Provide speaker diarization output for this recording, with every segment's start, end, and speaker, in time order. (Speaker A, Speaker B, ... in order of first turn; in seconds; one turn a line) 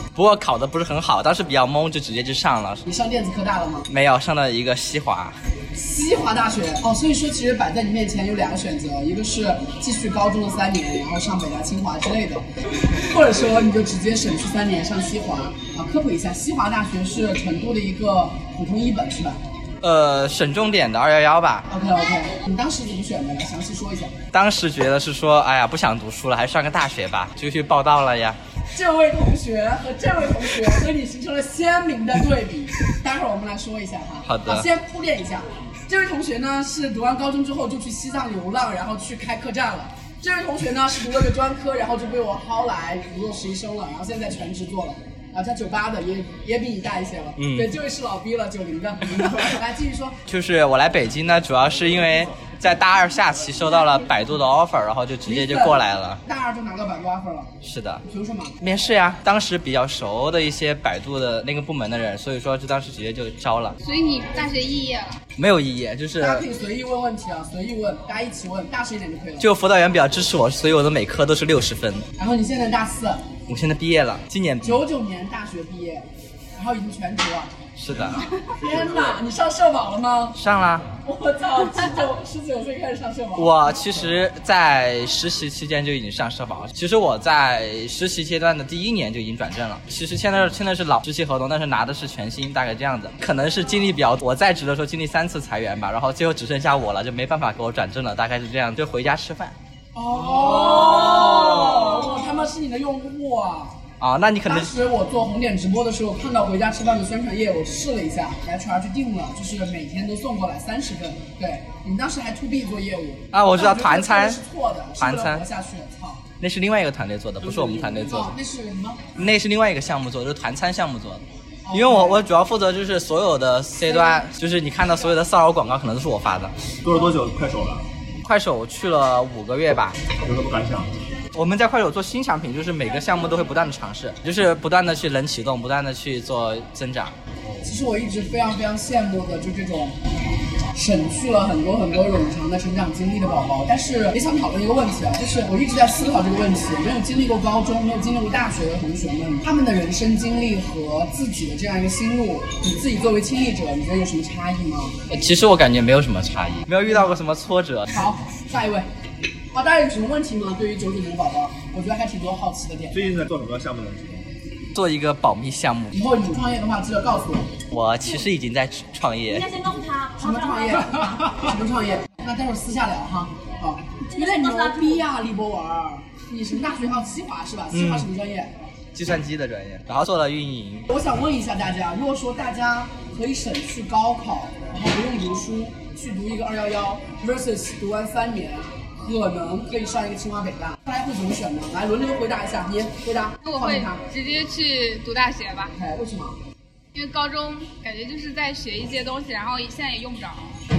Speaker A: 0.1-2.8
Speaker B: 2.9-3.9
Speaker A: 3.9-5.3
Speaker B: 5.8-12.4
Speaker B: 13.0-19.4
Speaker A: 19.8-21.6
Speaker B: 21.7-24.1
Speaker A: 24.3-28.4
Speaker B: 28.7-50.2
Speaker A: 34.2-34.7
Speaker A: 47.4-47.7
Speaker A: 50.3-56.2
Speaker B: 55.2-57.5
Speaker A: 57.6-58.0
Speaker B: 58.0-58.6
Speaker A: 58.6-63.8
Speaker C: 63.8-65.2
Speaker A: 65.4-66.4
Speaker B: 66.2-69.5
Speaker A: 69.4-72.0
Speaker B: 72.2-73.3
Speaker A: 73.5-74.8
Speaker B: 74.6-76.0
Speaker B: 76.5-77.5
Speaker A: 77.8-78.3
Speaker B: 78.2-80.4
Speaker A: 80.3-80.9
Speaker B: 81.0-83.6
Speaker A: 83.3-99.5
Speaker B: 99.9-103.8
Speaker A: 101.5-101.9
Speaker A: 104.0-104.7
Speaker B: 104.5-116.2
Speaker A: 113.3-114.4
Speaker A: 115.0-115.5
Speaker A: 116.4-118.3
Speaker B: 117.4-119.1
Speaker A: 119.2-126.5
Speaker B: 121.6-122.2
Speaker B: 123.9-124.2
Speaker D: 126.8-127.8
Speaker A: 128.2-129.9
Speaker D: 130.2-130.9
Speaker A: 131.3-137.1
Speaker B: 137.6-139.9
Speaker B: 140.7-155.0
Speaker A: 155.1-157.9
Speaker B: 157.9-158.9
Speaker B: 159.5-163.0
Speaker D: 162.9-164.2
Speaker A: 164.7-165.9
Speaker B: 165.9-167.5
Speaker A: 167.7-169.4
Speaker E: 169.3-171.1
Speaker B: 170.2-178.5
Speaker E: 174.1-175.0
Speaker A: 177.7-178.1
Speaker A: 178.9-180.9
Speaker B: 180.9-194.0
Speaker C: 193.4-195.7
Speaker B: 195.7-196.4
Speaker C: 196.9-200.5